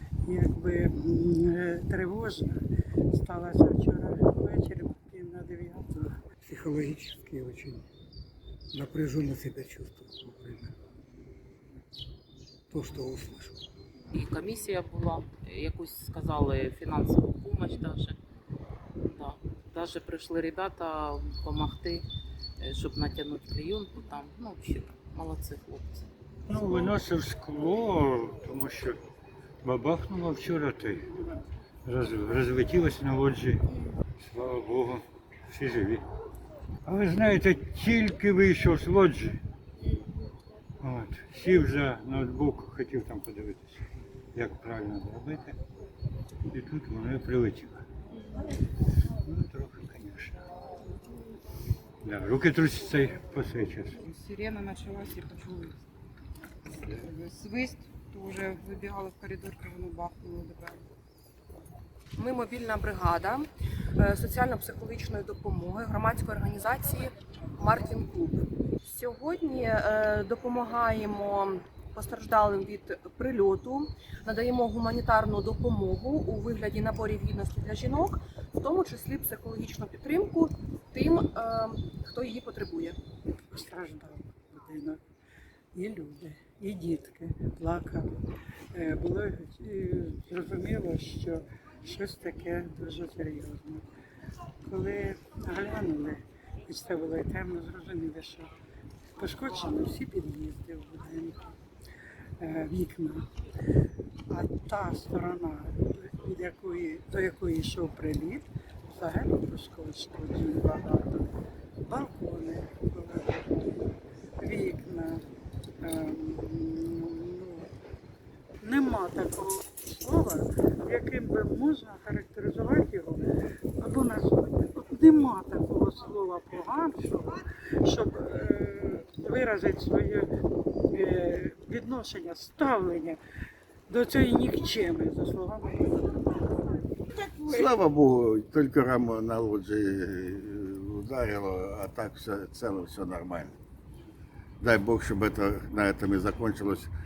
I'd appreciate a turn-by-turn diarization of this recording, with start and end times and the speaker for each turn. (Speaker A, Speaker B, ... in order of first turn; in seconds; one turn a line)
Speaker A: 0.2-6.2
Speaker B: 6.4-7.8
Speaker B: 8.7-10.7
Speaker B: 12.7-13.6
Speaker C: 14.1-18.2
Speaker C: 19.1-22.0
Speaker C: 22.6-26.1
Speaker D: 26.5-29.0
Speaker C: 26.6-26.9
Speaker D: 29.6-31.0
Speaker D: 31.8-33.6
Speaker D: 34.2-36.0
Speaker D: 36.8-39.4
Speaker D: 40.8-43.8
Speaker D: 44.3-45.6
Speaker D: 46.5-47.8
Speaker D: 49.2-50.4
Speaker D: 52.0-54.0
Speaker E: 54.0-55.8
Speaker E: 57.0-60.8
Speaker F: 62.2-83.0
Speaker A: 83.5-85.0
Speaker A: 85.7-88.2
Speaker A: 88.7-93.8
Speaker A: 94.6-98.5
Speaker A: 99.2-101.4
Speaker A: 102.4-103.3
Speaker A: 104.3-111.2
Speaker A: 111.8-115.2
Speaker A: 115.8-117.7
Speaker A: 118.6-123.2
Speaker A: 123.8-130.3
Speaker A: 130.9-133.2
Speaker A: 133.9-136.4
Speaker G: 137.2-143.5
Speaker G: 144.6-146.9